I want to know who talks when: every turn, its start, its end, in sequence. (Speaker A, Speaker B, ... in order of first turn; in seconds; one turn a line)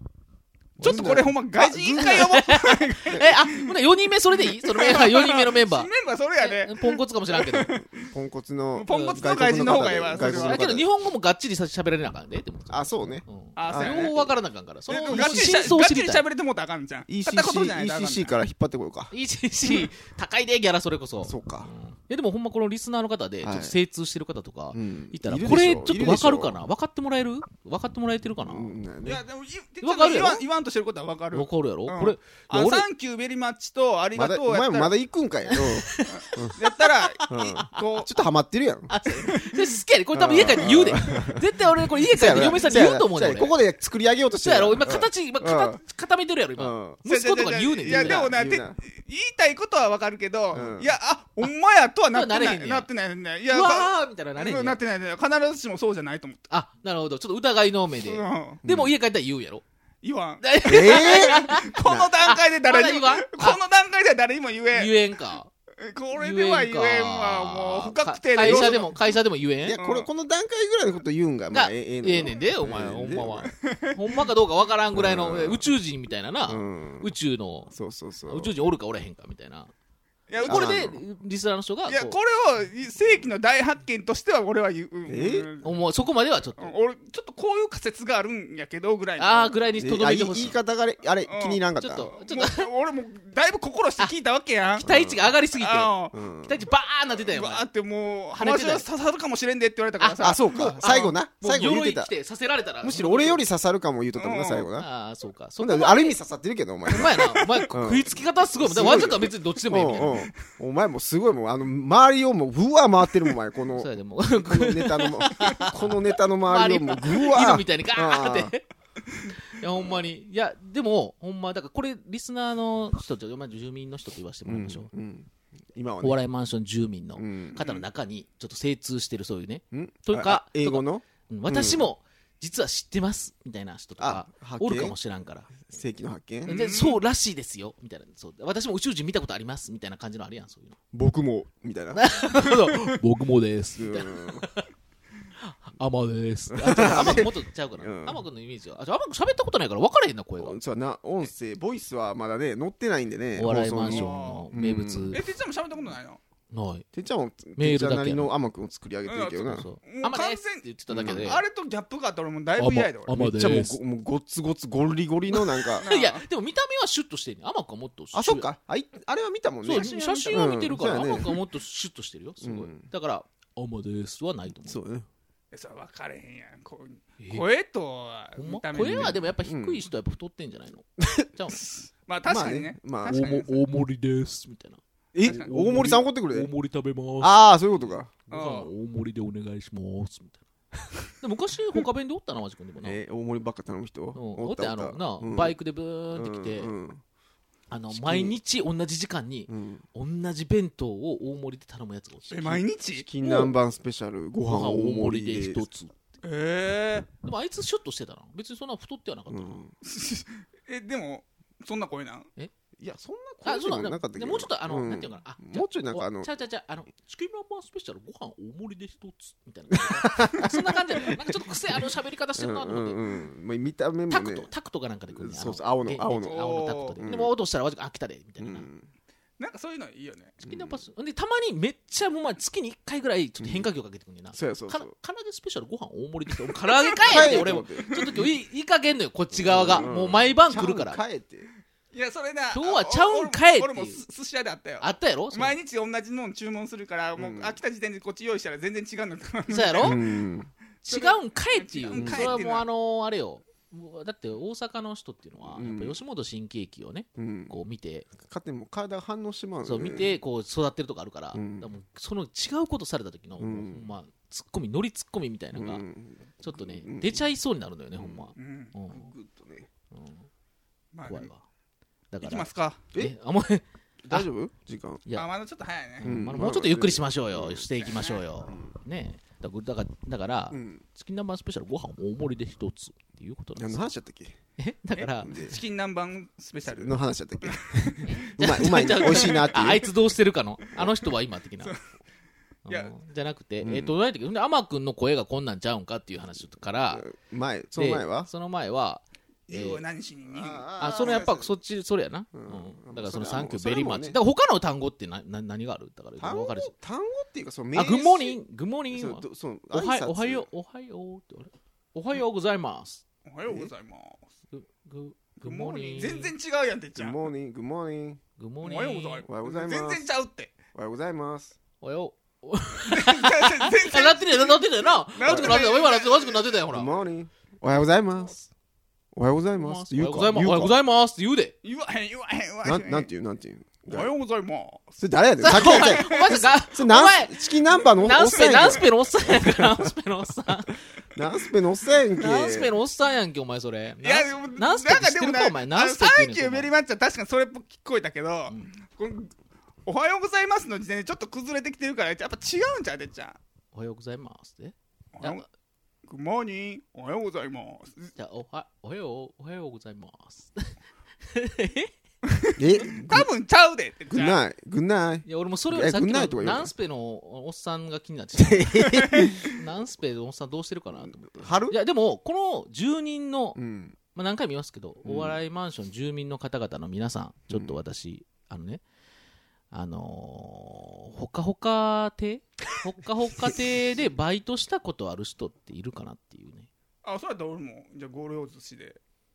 Speaker A: 0.8-3.7
Speaker B: 0.8-1.3
Speaker C: 0.8-2.3
Speaker B: 2.0-7.8
Speaker A: 4.4-8.1
Speaker C: 8.0-10.8
Speaker A: 8.7-10.7
Speaker B: 8.9-16.2
Speaker C: 12.7-14.3
Speaker A: 13.6-14.1
Speaker A: 14.9-18.3
Speaker C: 14.9-15.7
Speaker C: 17.1-19.1
Speaker B: 19.1-28.8
Speaker C: 21.2-21.7
Speaker C: 23.4-23.8
Speaker C: 24.7-26.6
Speaker C: 28.4-29.2
Speaker A: 29.0-34.9
Speaker B: 29.8-30.4
Speaker B: 31.3-32.9
Speaker C: 34.1-36.5
Speaker B: 35.5-37.7
Speaker A: 36.1-38.1
Speaker C: 37.3-38.9
Speaker B: 38.9-43.5
Speaker A: 39.2-39.6
Speaker C: 40.1-45.8
Speaker B: 44.4-48.4
Speaker C: 46.6-47.0
Speaker A: 47.0-56.5
Speaker C: 47.8-48.8
Speaker C: 50.5-50.9
Speaker B: 52.1-52.9
Speaker B: 53.5-54.8
Speaker B: 56.5-59.6
Speaker A: 58.0-58.6
Speaker C: 58.6-58.9
Speaker A: 60.0-65.0
Speaker B: 60.4-63.6
Speaker C: 60.6-62.1
Speaker B: 64.7-65.5
Speaker A: 65.8-69.2
Speaker B: 66.1-69.8
Speaker C: 68.4-68.9
Speaker C: 69.6-73.5
Speaker A: 69.7-70.1
Speaker B: 71.5-77.7
Speaker A: 73.6-74.1
Speaker C: 74.9-75.7
Speaker C: 76.5-77.1
Speaker C: 77.7-78.5
Speaker B: 78.3-79.7
Speaker A: 80.3-80.9
Speaker B: 80.4-82.2
Speaker C: 80.4-81.0
Speaker A: 81.9-85.7
Speaker C: 85.1-85.5
Speaker B: 85.6-86.7
Speaker A: 86.6-89.6
Speaker B: 89.2-90.5
Speaker C: 89.8-92.1
Speaker A: 91.2-94.8
Speaker B: 91.8-92.7
Speaker C: 94.8-95.3
Speaker B: 94.8-97.7
Speaker A: 95.6-96.1
Speaker C: 96.1-96.6
Speaker A: 97.3-101.1
Speaker B: 98.3-98.8
Speaker B: 100.0-103.4
Speaker C: 100.2-102.1
Speaker C: 102.8-104.9
Speaker A: 104.2-104.7
Speaker B: 104.8-106.2
Speaker C: 105.6-118.5
Speaker B: 106.9-110.3
Speaker B: 113.7-118.6
Speaker B: 119.3-124.9
Speaker C: 124.5-126.2
Speaker B: 126.0-135.6
Speaker C: 127.2-127.6
Speaker C: 129.7-131.9
Speaker C: 134.0-134.9
Speaker C: 135.6-136.6
Speaker A: 136.4-137.0
Speaker B: 136.4-140.8
Speaker C: 140.9-142.2
Speaker B: 141.9-144.7
Speaker C: 143.7-144.5
Speaker B: 145.4-150.6
Speaker C: 146.5-148.2
Speaker C: 150.4-155.2
Speaker B: 153.3-155.2
Speaker A: 153.8-154.5
Speaker A: 155.1-156.2
Speaker B: 156.5-156.8
Speaker C: 156.9-159.7
Speaker B: 157.6-158.3
Speaker A: 159.1-163.2
Speaker B: 159.5-161.4
Speaker C: 160.9-161.4
Speaker B: 162.6-163.8
Speaker C: 163.1-165.8
Speaker B: 165.3-168.5
Speaker A: 165.8-166.2
Speaker C: 168.1-171.4
Speaker B: 169.6-174.8
Speaker A: 169.8-170.3
Speaker C: 172.4-172.9
Speaker C: 174.6-175.1
Speaker A: 175.5-179.2
Speaker B: 177.2-177.4
Speaker B: 178.4-181.6
Speaker C: 179.0-179.8
Speaker C: 181.0-181.3
Speaker A: 181.5-183.6
Speaker C: 182.2-183.3
Speaker B: 183.1-190.4
Speaker C: 185.1-186.5
Speaker A: 185.3-185.5
Speaker C: 187.2-188.1
Speaker A: 188.3-188.7
Speaker B: 191.2-193.0
Speaker C: 192.8-195.6
Speaker B: 194.1-196.7
Speaker C: 196.1-197.0
Speaker B: 197.7-202.6
Speaker C: 197.9-198.3
Speaker C: 199.5-199.8
Speaker A: 202.3-203.5
Speaker C: 203.0-205.7
Speaker B: 204.5-205.9
Speaker A: 206.2-207.1
Speaker B: 207.2-209.6
Speaker C: 209.3-209.7
Speaker A: 209.8-212.3
Speaker C: 212.8-216.3
Speaker B: 213.4-223.0
Speaker C: 219.7-221.8
Speaker C: 222.4-224.5
Speaker B: 224.1-228.7
Speaker C: 225.1-226.4
Speaker A: 226.2-227.0
Speaker C: 227.0-227.3
Speaker C: 228.4-228.9
Speaker A: 229.4-230.4
Speaker C: 230.4-230.8
Speaker B: 230.4-241.0
Speaker C: 233.4-233.7
Speaker C: 234.3-234.9
Speaker A: 236.7-238.2
Speaker C: 237.0-238.3
Speaker C: 239.3-241.5
Speaker A: 241.9-250.2
Speaker B: 242.5-244.0
Speaker B: 244.8-245.6
Speaker C: 247.2-247.6
Speaker B: 249.5-250.0
Speaker C: 249.8-250.5
Speaker B: 250.8-258.1
Speaker A: 250.9-252.7
Speaker C: 251.9-252.4
Speaker C: 255.4-256.0
Speaker C: 257.2-257.5
Speaker C: 258.2-260.1
Speaker B: 259.6-265.8
Speaker C: 261.3-261.7
Speaker C: 263.4-263.9
Speaker C: 265.5-267.2
Speaker B: 266.4-269.1
Speaker C: 267.9-268.3
Speaker A: 268.4-268.7
Speaker C: 268.9-269.7
Speaker B: 269.9-270.3
Speaker A: 270.9-271.3
Speaker B: 271.1-271.4
Speaker B: 272.1-274.3
Speaker A: 272.2-272.8
Speaker C: 274.0-275.0
Speaker A: 275.1-276.1
Speaker B: 276.0-283.8
Speaker C: 276.0-277.7
Speaker A: 277.8-278.2
Speaker C: 278.5-278.7
Speaker C: 280.5-280.8
Speaker C: 283.6-284.4
Speaker B: 284.6-285.4
Speaker A: 285.0-289.7
Speaker C: 285.2-285.6
Speaker C: 286.7-289.9
Speaker B: 288.1-291.8
Speaker B: 292.6-297.1
Speaker A: 292.7-292.9
Speaker C: 293.6-293.9
Speaker C: 296.9-298.3
Speaker B: 297.7-299.8
Speaker A: 299.5-301.3
Speaker C: 300.3-301.5
Speaker B: 300.8-306.7
Speaker C: 302.3-304.2
Speaker C: 306.2-308.4
Speaker B: 307.7-313.0
Speaker C: 308.9-310.5
Speaker A: 313.2-314.2
Speaker B: 314.5-316.3
Speaker A: 315.4-317.2
Speaker C: 316.9-318.2
Speaker B: 318.4-319.2
Speaker A: 318.6-320.6
Speaker C: 319.3-320.0
Speaker C: 320.7-321.5
Speaker B: 321.8-326.9
Speaker A: 322.9-326.6
Speaker C: 325.2-325.7
Speaker C: 326.7-328.4
Speaker C: 329.1-330.8
Speaker B: 329.6-331.5
Speaker A: 331.6-333.1
Speaker C: 332.6-334.1
Speaker A: 333.9-334.9
Speaker C: 335.0-339.9
Speaker B: 335.4-337.4
Speaker A: 335.5-336.4
Speaker B: 338.0-340.8
Speaker C: 341.1-342.7
Speaker B: 342.2-346.7
Speaker A: 344.0-349.3
Speaker A: 349.8-353.4
Speaker B: 353.7-355.4
Speaker A: 355.1-355.4
Speaker A: 356.1-358.1
Speaker B: 358.1-360.7
Speaker B: 361.3-361.9
Speaker A: 362.2-364.4
Speaker C: 362.6-363.3
Speaker C: 364.1-366.7
Speaker B: 365.2-373.6
Speaker C: 368.4-369.6
Speaker C: 371.0-371.8
Speaker C: 373.6-374.0
Speaker B: 374.1-378.8
Speaker C: 375.0-375.4
Speaker C: 377.5-377.8
Speaker B: 379.7-386.7
Speaker A: 387.0-389.0